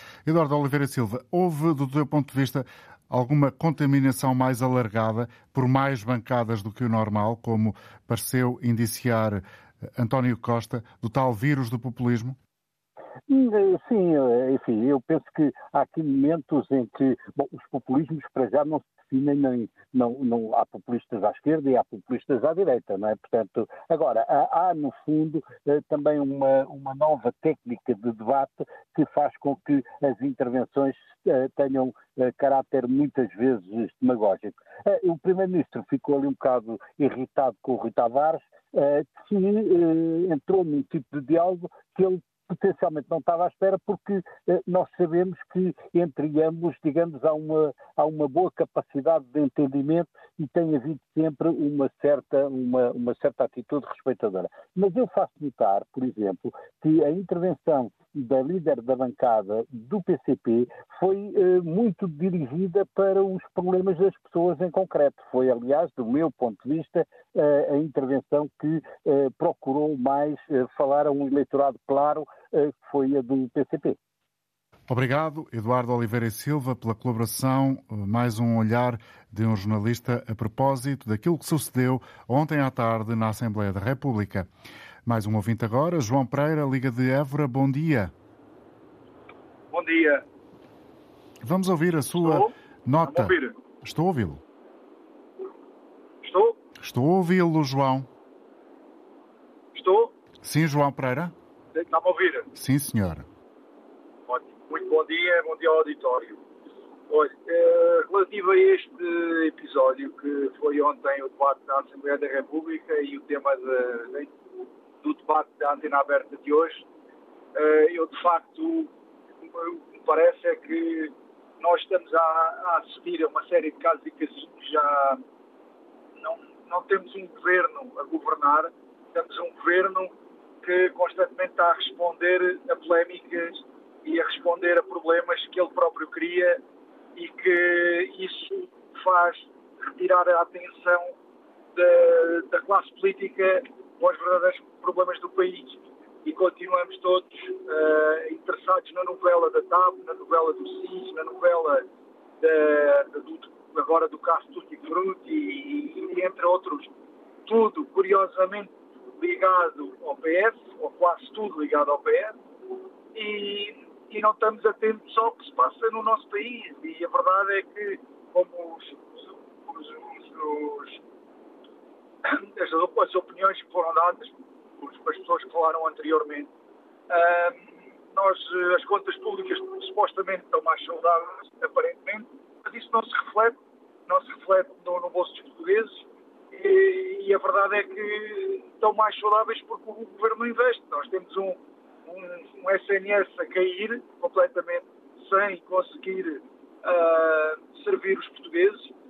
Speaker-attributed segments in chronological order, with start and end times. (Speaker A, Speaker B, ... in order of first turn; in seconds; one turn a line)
Speaker A: 0.2-9.4
Speaker A: 10.0-12.3
Speaker B: 13.3-74.0
Speaker A: 74.9-84.5
Speaker A: 85.0-88.1
Speaker C: 89.7-90.2
Speaker A: 91.4-94.4
Speaker C: 92.2-93.6
Speaker C: 96.2-96.6
Speaker A: 96.8-98.1
Speaker C: 99.7-100.1
Speaker A: 100.4-101.3
Speaker C: 101.7-102.5
Speaker A: 102.5-103.2
Speaker C: 104.3-106.4
Speaker C: 107.1-114.3
Speaker C: 115.0-116.8
Speaker C: 117.5-118.9
Speaker C: 119.5-125.2
Speaker C: 126.2-136.6
Speaker C: 137.2-141.1
Speaker C: 141.7-151.9
Speaker C: 152.4-156.9
Speaker C: 157.4-162.4
Speaker C: 163.1-171.0
Speaker C: 172.2-176.5
Speaker C: 177.1-198.9